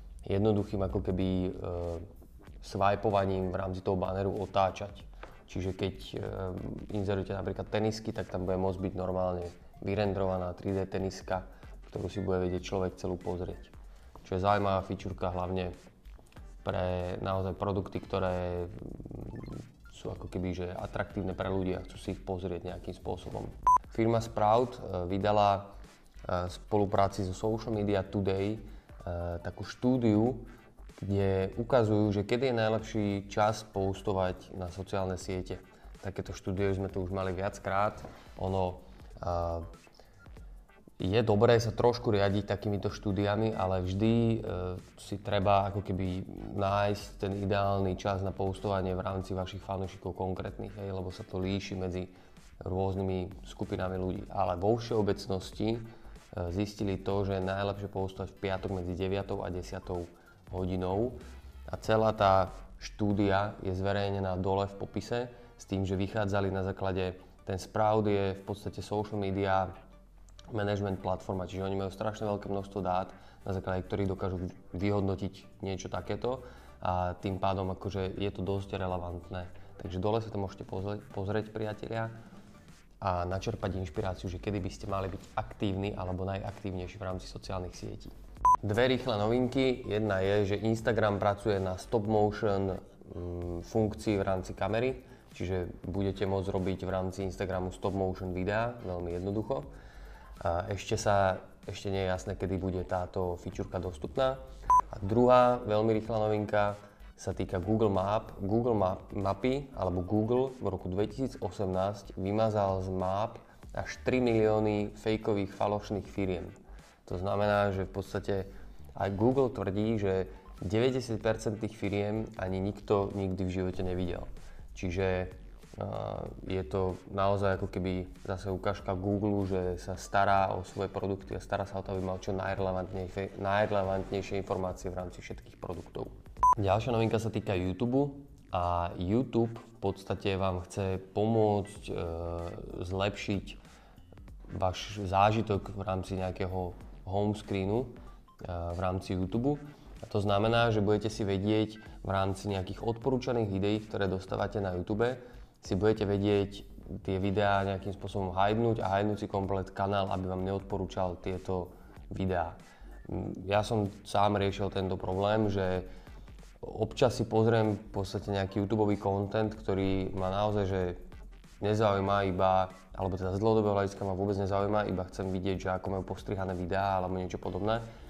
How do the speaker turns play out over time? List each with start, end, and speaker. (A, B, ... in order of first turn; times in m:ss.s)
0:00.2-0:02.0 A
0:02.6-0:15.7 A
0:16.6-0:25.7 A
0:26.2-0:30.5 A
0:31.0-0:39.7 A
0:41.0-1:01.2 A
1:01.7-1:09.7 A
1:10.5-1:22.1 A
1:23.0-1:39.7 A
1:40.4-1:56.6 A
1:57.1-2:23.6 A
2:24.5-2:45.9 A
2:46.6-2:51.0 A
2:51.6-2:57.8 A